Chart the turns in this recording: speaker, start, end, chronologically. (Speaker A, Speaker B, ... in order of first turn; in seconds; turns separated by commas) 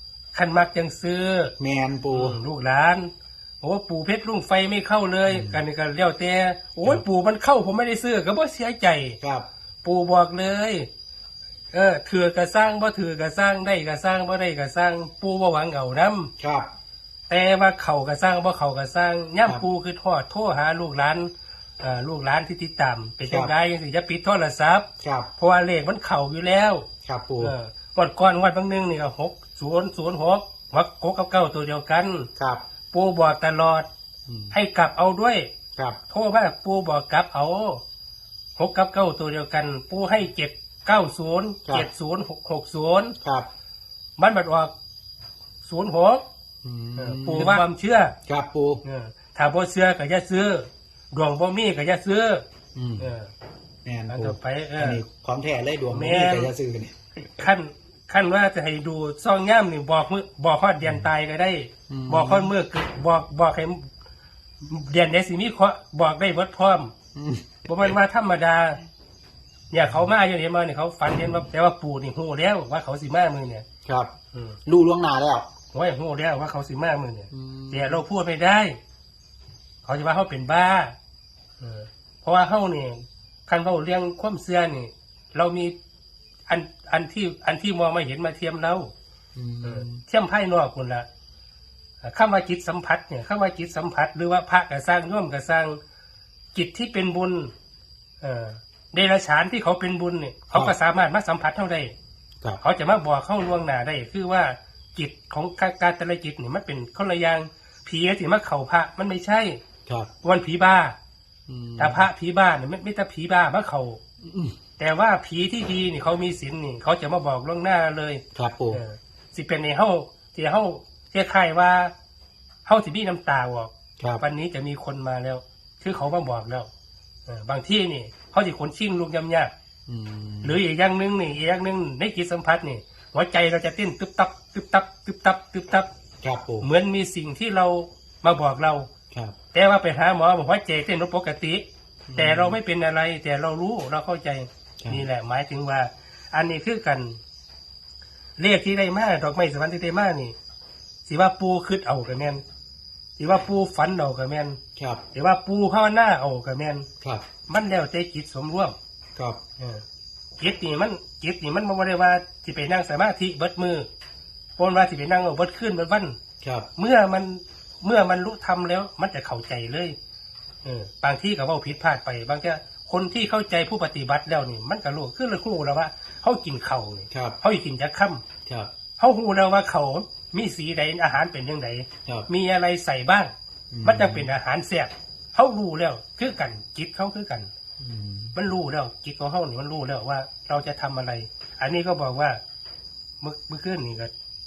Speaker A: 0.3-1.5, Speaker B: 1.6-2.4, Speaker A: 2.1-3.1, Speaker A: 3.6-9.2, Speaker B: 5.3-5.6, Speaker B: 9.2-9.5, Speaker A: 9.8-10.9, Speaker A: 11.7-16.3, Speaker B: 16.4-16.7, Speaker A: 17.3-26.9, Speaker B: 23.3-23.5, Speaker B: 25.0-25.3, Speaker B: 27.1-27.5, Speaker A: 27.4-32.3, Speaker B: 32.4-32.6, Speaker A: 32.9-33.9, Speaker B: 34.3-34.5, Speaker A: 34.5-35.5, Speaker A: 36.1-37.8, Speaker A: 38.6-43.1, Speaker B: 43.2-43.5, Speaker A: 44.2-44.7, Speaker A: 45.6-46.2, Speaker B: 46.6-47.7, Speaker A: 47.0-48.1, Speaker B: 48.3-48.8, Speaker A: 48.9-52.5, Speaker B: 52.8-53.1, Speaker A: 53.0-53.3, Speaker B: 53.9-57.0, Speaker A: 54.1-55.0, Speaker A: 55.9-56.5, Speaker A: 57.4-63.9, Speaker B: 61.9-62.5, Speaker A: 64.6-66.9, Speaker B: 67.1-68.0, Speaker A: 67.7-68.8, Speaker A: 69.7-73.6, Speaker B: 73.9-74.1, Speaker A: 74.3-74.6, Speaker B: 74.7-75.5, Speaker A: 75.7-78.8, Speaker B: 77.3-78.0, Speaker A: 79.8-81.0, Speaker A: 81.6-85.7, Speaker A: 86.5-88.9, Speaker B: 89.4-90.0, Speaker A: 89.6-91.1, Speaker A: 92.0-95.8, Speaker A: 96.5-97.5, Speaker A: 98.2-101.9, Speaker A: 102.6-109.6, Speaker A: 110.2-111.0, Speaker B: 111.5-112.1, Speaker A: 111.8-114.0, Speaker B: 114.2-114.5, Speaker A: 114.8-121.9, Speaker B: 118.3-118.8, Speaker A: 122.7-126.7, Speaker A: 127.3-129.5, Speaker B: 129.9-130.6, Speaker A: 130.4-135.9, Speaker B: 136.2-136.7, Speaker A: 136.6-138.9, Speaker A: 139.5-147.2, Speaker B: 142.1-142.6, Speaker A: 148.4-150.3, Speaker A: 151.1-152.4, Speaker A: 153.2-154.6, Speaker B: 154.8-155.0, Speaker A: 155.1-156.9, Speaker A: 157.5-158.8, Speaker A: 159.6-159.8, Speaker A: 160.4-163.9, Speaker A: 164.6-166.2, Speaker B: 166.4-166.7, Speaker A: 166.8-169.9, Speaker A: 170.6-178.2, Speaker B: 177.1-177.4, Speaker B: 178.5-178.7, Speaker A: 179.0-183.3, Speaker B: 183.7-184.3, Speaker A: 183.8-187.5, Speaker B: 187.8-188.3, Speaker A: 188.3-192.4, Speaker A: 193.2-194.1